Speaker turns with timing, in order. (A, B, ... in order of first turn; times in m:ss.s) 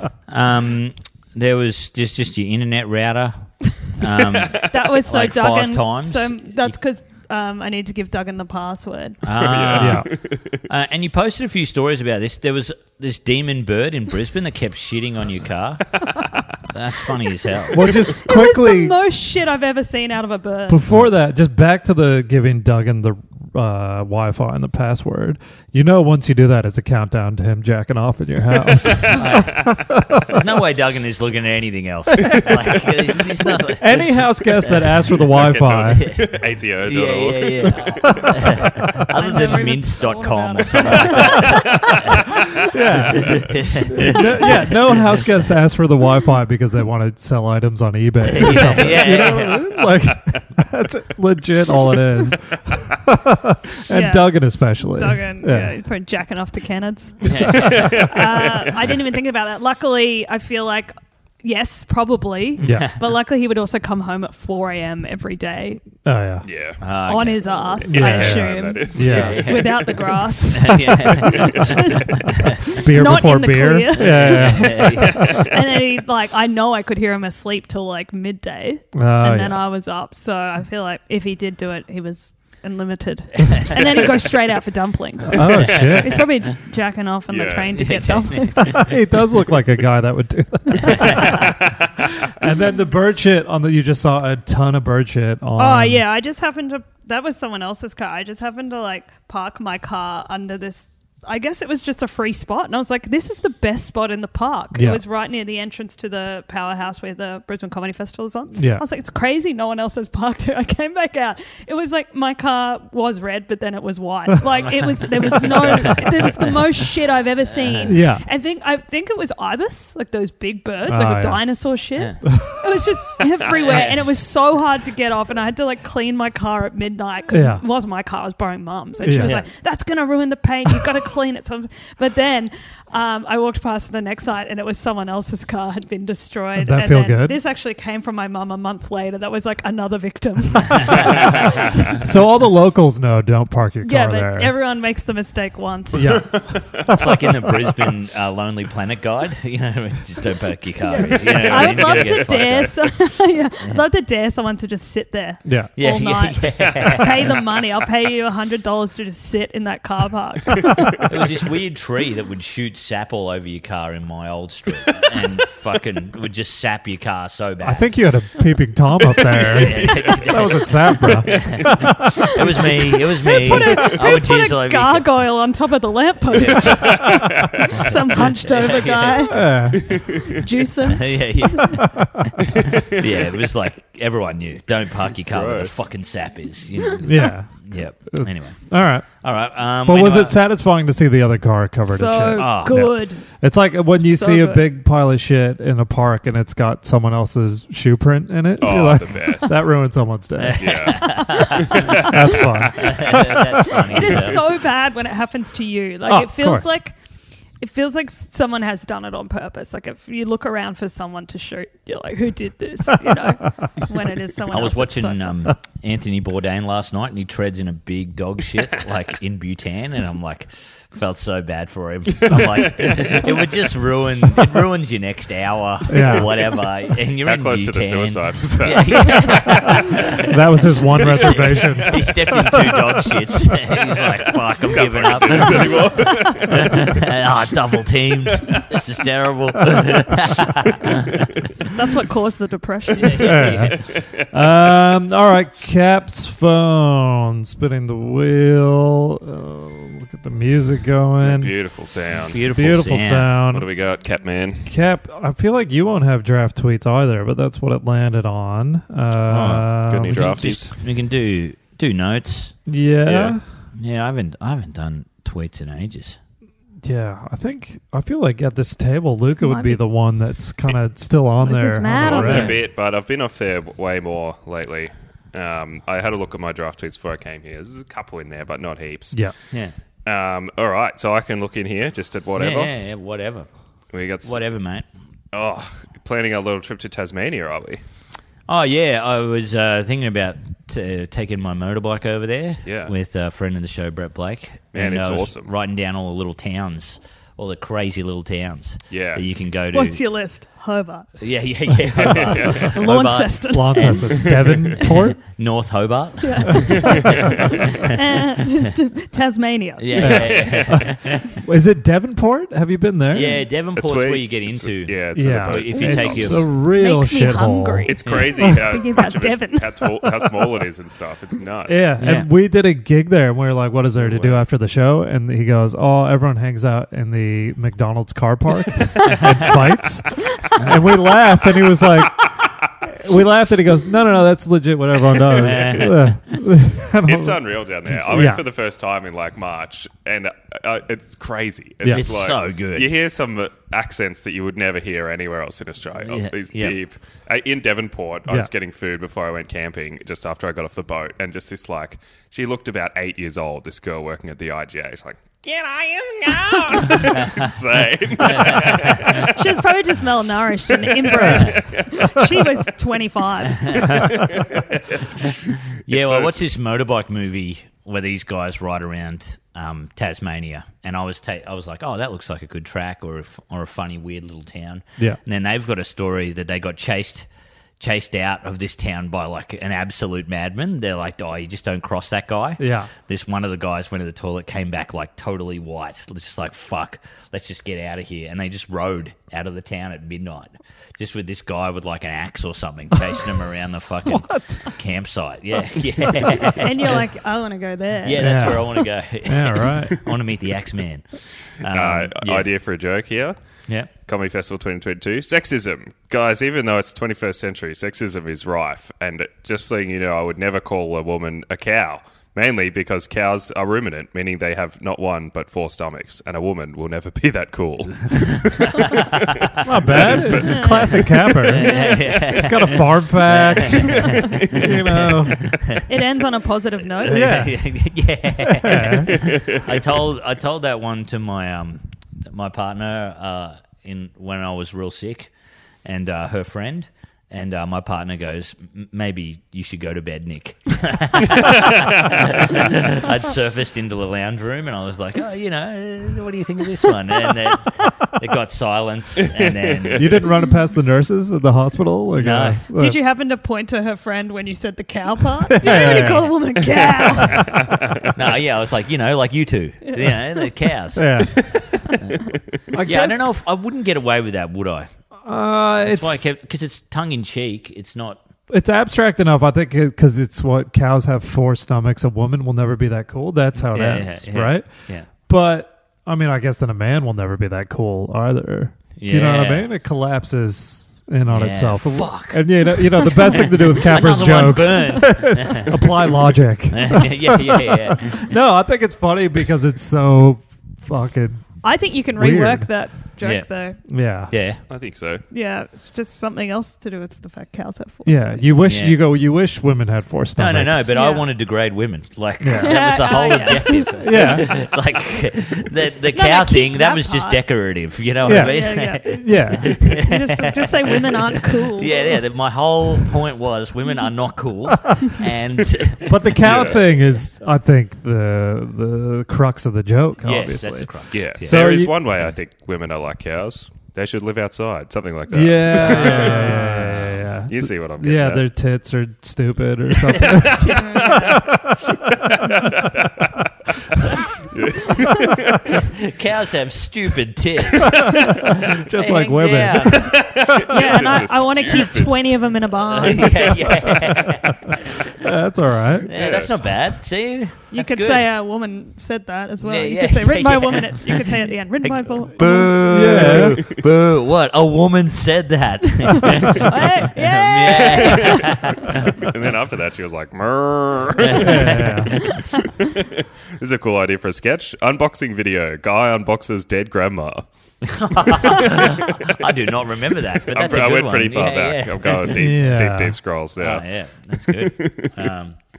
0:00.3-0:06.7 A
0:04.7-0:09.2 B
0:09.2-0:17.9 A
0:09.4-0:10.5 C
0:09.7-0:10.1 D
0:17.7-0:19.0 D
0:18.2-0:20.8 B
0:20.7-0:30.4 D
0:28.9-0:29.3 C
0:29.0-0:42.4 A
0:33.8-0:36.2 D
0:35.0-0:38.8 C
0:38.2-0:38.9 D
0:39.1-0:42.3 B
0:42.7-0:55.7 D
0:43.0-0:45.3 A
0:48.2-0:49.7 A
0:53.9-1:05.8 B
0:57.2-0:58.2 A
0:57.6-0:58.7 C
1:02.6-1:02.9 D
1:02.6-1:03.0 A
1:06.0-1:06.5 D
1:06.4-1:06.8 C
1:06.8-1:08.0 A
1:07.0-1:28.8 B
1:07.8-1:09.7 C
1:07.9-1:09.4 D
1:09.0-1:12.8 A
1:11.2-1:11.8 C
1:12.7-1:15.5 D
1:14.0-1:15.3 A
1:18.9-1:19.6 D
1:25.3-1:26.3 D
1:25.6-1:26.2 A
1:27.3-1:27.7 C
1:27.7-1:29.0 A
1:28.6-1:36.0 D
1:30.8-1:31.5 A
1:35.6-2:21.8 B
1:44.7-1:45.0 D
1:48.5-1:48.8 D
1:55.4-1:56.5 A
1:57.6-1:57.9 A
1:57.8-1:58.2 D
2:00.9-2:01.4 D
2:02.2-2:02.6 D
2:03.5-2:04.0 A
2:07.3-2:07.6 D
2:09.0-2:09.4 D
2:09.2-2:09.5 A
2:16.6-2:17.4 D
2:21.9-2:24.5 D
2:23.8-2:26.2 B
2:25.9-2:27.9 D
2:26.3-2:26.9 C
2:26.9-2:32.8 A
2:30.8-2:41.0 B
2:31.0-2:32.8 C
2:35.4-2:35.7 D
2:35.8-2:37.4 A
2:41.0-2:47.9 A
2:47.6-2:52.1 D
2:49.4-2:55.1 A
2:49.7-2:50.2 B
2:52.6-3:01.7 B
2:56.3-2:57.2 A
2:56.6-2:57.9 C
2:57.8-2:59.4 A
2:59.2-3:00.0 D
2:59.7-3:00.4 C
3:00.8-3:08.7 A
3:01.6-3:02.3 D
3:02.6-3:02.8 C
3:05.2-3:05.9 C
3:07.0-3:07.5 D
3:08.1-3:09.1 D
3:09.2-3:10.4 A
3:09.8-3:21.0 D
3:11.9-3:13.3 B
3:12.4-3:12.9 A
3:14.0-3:14.7 B
3:18.6-3:19.6 C
3:20.4-3:22.1 A
3:20.6-3:22.2 C
3:21.0-3:22.4 B
3:21.9-3:23.5 D
3:22.7-3:24.4 A
3:23.0-3:27.0 B
3:26.1-3:26.7 D
3:27.6-3:35.5 B
3:34.5-4:01.3 A
3:42.3-3:43.5 C
3:45.9-3:46.4 D
3:47.2-3:49.8 C
3:50.2-3:52.9 D
3:51.0-3:52.6 C
3:54.2-3:57.0 C
4:01.7-4:03.5 B
4:03.0-4:03.9 A
4:03.1-4:11.5 D
4:11.2-4:12.5 C
4:12.1-4:13.3 A
4:12.5-4:13.7 D
4:13.4-4:14.7 C
4:14.7-4:20.6 D
4:19.3-4:22.6 A
4:19.8-4:20.8 C
4:22.7-4:23.4 D
4:23.0-4:23.4 C
4:23.8-4:26.2 A
4:26.8-4:32.6 D
4:29.4-4:29.8 B
4:31.4-4:32.6 B
4:32.0-4:39.2 C
4:32.2-4:32.6 A
4:40.1-4:42.8 C
4:42.4-4:43.5 A
4:43.9-4:44.4 C
4:44.2-4:44.9 A
4:45.3-4:47.8 C
4:48.5-5:00.0 A
4:52.6-4:52.9 C
4:54.7-4:55.5 C
4:58.9-4:59.2 C
4:59.7-5:01.1 B
5:01.2-5:07.9 A
5:02.0-5:02.8 C
5:02.5-5:04.3 B
5:03.5-5:05.2 D
5:04.2-5:04.7 C
5:06.2-5:10.4 B
5:06.9-5:07.2 C
5:09.8-5:11.4 A
5:10.0-5:13.4 D
5:10.0-5:10.9 C
5:13.1-5:16.5 A
5:13.7-5:16.4 C
5:15.1-5:18.6 D
5:15.9-5:20.4 B
5:17.9-5:21.9 C
5:18.1-5:18.3 A
5:21.7-5:38.4 D
5:22.0-5:22.3 A
5:24.0-5:24.4 C
5:29.1-5:29.5 A
5:30.6-5:30.9 A
5:35.2-5:36.4 A
5:35.4-5:35.9 C
5:37.0-5:59.4 C
5:41.8-5:42.1 D
5:41.9-5:42.9 A
5:46.0-5:46.8 A
5:56.9-5:57.4 A
5:58.2-5:59.2 A
5:59.1-6:04.0 B
6:00.8-6:02.4 C
6:01.1-6:01.6 D
6:03.5-6:17.3 A
6:04.0-6:04.6 C
6:05.9-6:06.5 C
6:17.8-6:37.0 A
6:22.6-6:22.9 D
6:34.1-6:34.8 D
6:36.5-6:38.6 B
6:38.0-6:41.0 A
6:38.2-6:40.0 D
6:41.6-6:42.5 A
6:41.7-6:43.4 C
6:44.0-6:59.2 C
6:58.1-7:00.4 A
6:59.6-7:05.5 D
6:59.8-7:01.2 C
7:00.4-7:01.0 B
7:01.4-7:05.8 A
7:01.6-7:02.0 B
7:05.9-7:07.4 B
7:07.0-7:15.3 A
7:07.0-7:07.6 D
7:08.4-7:09.3 D
7:09.1-7:09.8 C
7:15.8-7:30.3 A
7:29.3-7:30.2 C
7:30.0-7:33.0 D
7:32.2-7:32.6 A
7:32.7-7:37.6 B
7:35.5-7:36.4 D
7:37.3-7:37.8 C
7:38.0-7:42.2 A
7:39.9-7:40.5 B
7:41.0-7:41.5 D
7:42.7-7:43.3 D
7:42.8-7:44.9 A
7:45.3-7:46.3 D
7:45.7-7:48.2 A
7:48.5-7:54.7 D
7:53.7-7:55.1 A
7:55.3-8:11.6 D
7:59.0-7:59.7 A
8:01.3-8:08.3 A
8:11.6-8:13.8 B
8:12.2-8:12.7 D
8:13.2-8:13.5 A
8:13.9-8:14.3 D
8:14.3-8:14.6 A
8:14.7-8:15.2 C
8:15.3-8:18.5 B
8:18.1-8:21.0 D
8:18.6-8:19.0 A
8:20.4-8:36.7 A
8:20.9-8:21.3 B
8:22.4-8:24.5 D
8:22.5-8:24.4 B
8:26.1-8:27.4 B
8:28.2-8:32.2 B
8:28.2-8:30.0 D
8:36.0-8:41.9 D
8:36.4-8:36.8 C
8:40.2-8:41.7 A
8:41.1-8:46.6 C
8:45.3-8:51.9 D
8:45.8-8:47.2 A
8:47.5-8:48.4 C
8:50.2-8:51.4 C
8:50.4-8:51.4 A
8:52.6-8:53.3 C
8:54.5-8:55.7 C
8:55.7-9:01.0 A
8:57.8-9:00.5 D
9:00.2-9:02.2 C
9:00.6-9:03.6 B
9:02.9-9:05.2 A
9:05.2-9:06.1 D
9:06.0-9:08.2 A
9:06.1-9:06.6 C
9:07.7-9:12.8 B
9:09.6-9:19.2 A
9:12.8-9:13.7 D
9:16.1-9:18.6 B
9:19.2-9:21.9 C
9:21.2-9:22.4 A
9:21.3-9:22.2 D
9:22.8-9:27.5 C
9:27.8-9:32.4 A
9:30.5-9:35.3 C
9:32.3-9:33.2 D
9:33.6-9:35.6 A